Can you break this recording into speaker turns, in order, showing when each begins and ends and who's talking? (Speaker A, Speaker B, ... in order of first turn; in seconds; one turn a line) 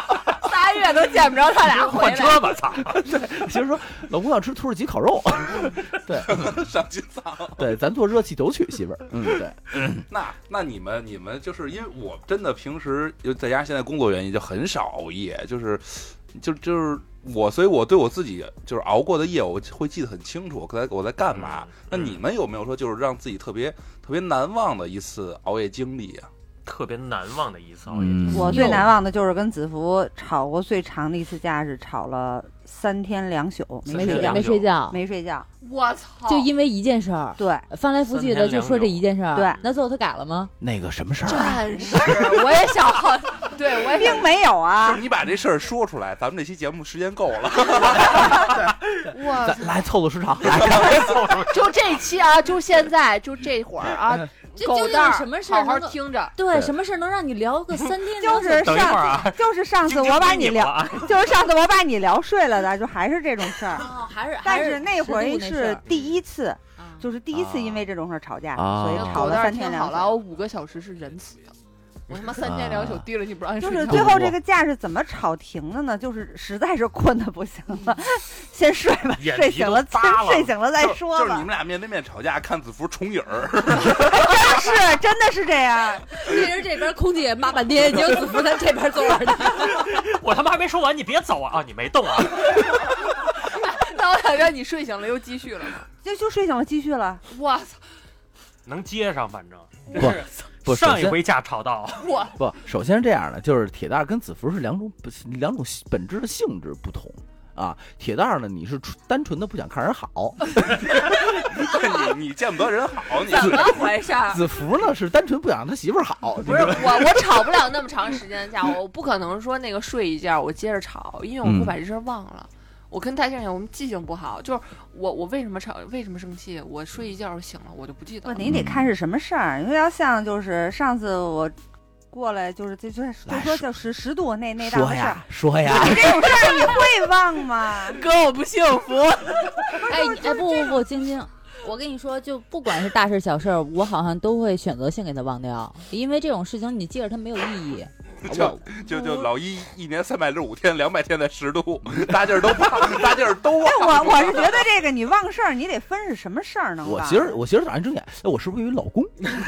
Speaker A: 0.4-2.6
Speaker B: 1.7-3.1
Speaker C: 2.9-6.7
Speaker D: 6.3-7.6
Speaker C: 7.5-10.1
Speaker D: 10.1-26.3
Speaker B: 21.3-22.2
Speaker B: 26.7-28.7
Speaker C: 27.9-28.9
Speaker E: 28.3-35.5
Speaker F: 28.5-28.9
Speaker F: 33.9-35.0
Speaker B: 33.9-34.7
Speaker A: 35.6-36.5
Speaker F: 36.3-40.5
Speaker E: 37.4-37.7
Speaker B: 38.1-39.7
Speaker E: 39.3-39.6
Speaker C: 40.6-42.0
Speaker A: 41.2-44.3
Speaker E: 43.9-45.0
Speaker D: 44.8-48.5
Speaker C: 48.4-51.1
Speaker A: 49.1-49.8
Speaker B: 50.8-51.6
Speaker A: 50.9-56.4
Speaker F: 54.6-58.9
Speaker E: 58.2-63.9
Speaker B: 58.4-61.2
Speaker F: 63.7-65.8
Speaker E: 64.4-70.2
Speaker B: 65.8-66.2
Speaker F: 66.8-67.0
Speaker B: 67.3-67.6
Speaker C: 68.5-69.4
Speaker A: 68.9-71.5
Speaker A: 72.1-74.3
Speaker C: 72.4-73.1
Speaker E: 73.6-81.5
Speaker C: 73.9-74.3
Speaker B: 79.2-80.6
Speaker D: 80.8-84.2
Speaker E: 84.0-86.2
Speaker F: 86.1-90.0
Speaker B: 89.6-92.7
Speaker A: 93.5-95.9
Speaker E: 96.0-97.2
Speaker A: 97.3-97.8
Speaker B: 98.7-102.1
Speaker A: 99.9-100.3
Speaker C: 100.0-101.2
Speaker A: 102.0-102.4
Speaker C: 102.4-110.6
Speaker D: 111.1-113.8
Speaker A: 113.2-114.5
Speaker C: 114.3-117.1
Speaker A: 116.4-128.4
Speaker C: 121.4-121.8
Speaker E: 128.2-131.5
Speaker C: 128.4-128.9
Speaker E: 132.1-138.0
Speaker C: 133.3-133.7
Speaker C: 134.6-136.3
Speaker A: 136.5-136.8
Speaker A: 137.8-139.9
Speaker F: 139.8-149.3
Speaker D: 148.3-154.6
Speaker E: 153.6-157.4
Speaker C: 156.8-159.1